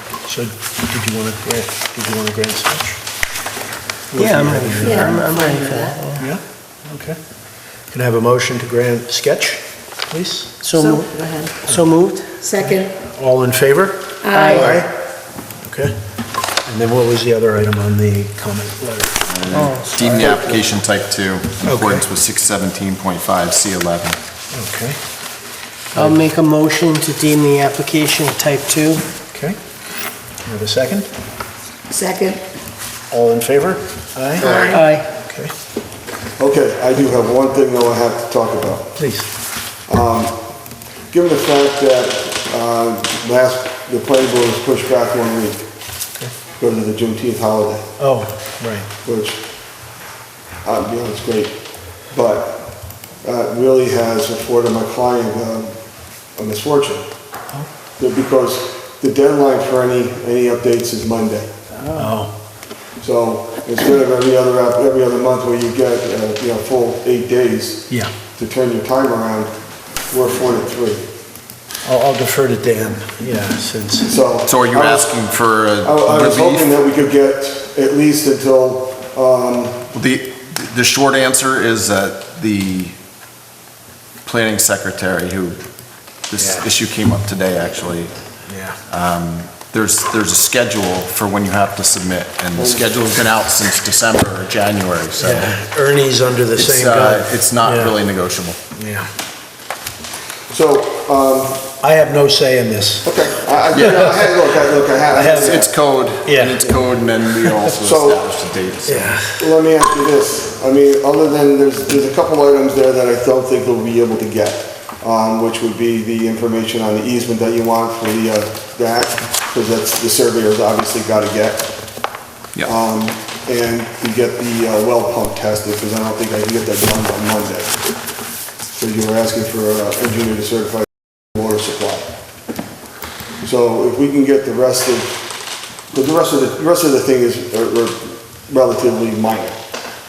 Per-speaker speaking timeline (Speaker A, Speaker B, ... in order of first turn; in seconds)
Speaker A: 0.2-3.0, 4.1-5.3, 6.2-7.2, 7.9-10.6, 12.6-14.8, 15.6-15.9, 16.6-19.2, 21.6-22.1, 24.5-25.0, 25.9-26.3, 29.3-29.6, 30.4-31.1, 33.1-35.5, 38.9-39.3, 48.0-48.9, 61.9-62.3, 71.8-74.1, 86.3-86.7, 88.5-88.8, 95.2-98.0, 98.7-99.1, 101.8-107.6, 108.8-109.5
Speaker B: 4.2-6.2, 10.6-12.4, 14.3-14.7, 19.5-19.9, 25.9-29.1, 34.5-35.1
Speaker C: 4.8-6.0, 10.7-11.6, 12.4-12.9, 14.2-14.8, 31.9-32.4, 34.4-34.8
Speaker D: 14.5-14.9, 36.4-38.9, 39.9-40.4, 41.1-45.7, 46.6-47.8, 49.0-49.4, 50.6-51.6, 52.1-52.7, 53.2-55.7, 56.4-57.1, 58.0-61.5, 63.0-69.5, 70.1-71.0, 74.0-75.2, 75.8-79.8, 92.5-93.0, 100.5-101.7, 103.0-105.7, 107.6-108.2, 109.4-121.7, 122.6-127.8, 128.7-132.1, 133.4-135.2, 135.9-139.6
Speaker E: 19.3-24.2, 74.4-76.7, 79.9-83.0, 84.2-85.6, 86.3-88.1, 88.9-95.5, 96.5-98.6, 105.3-109.2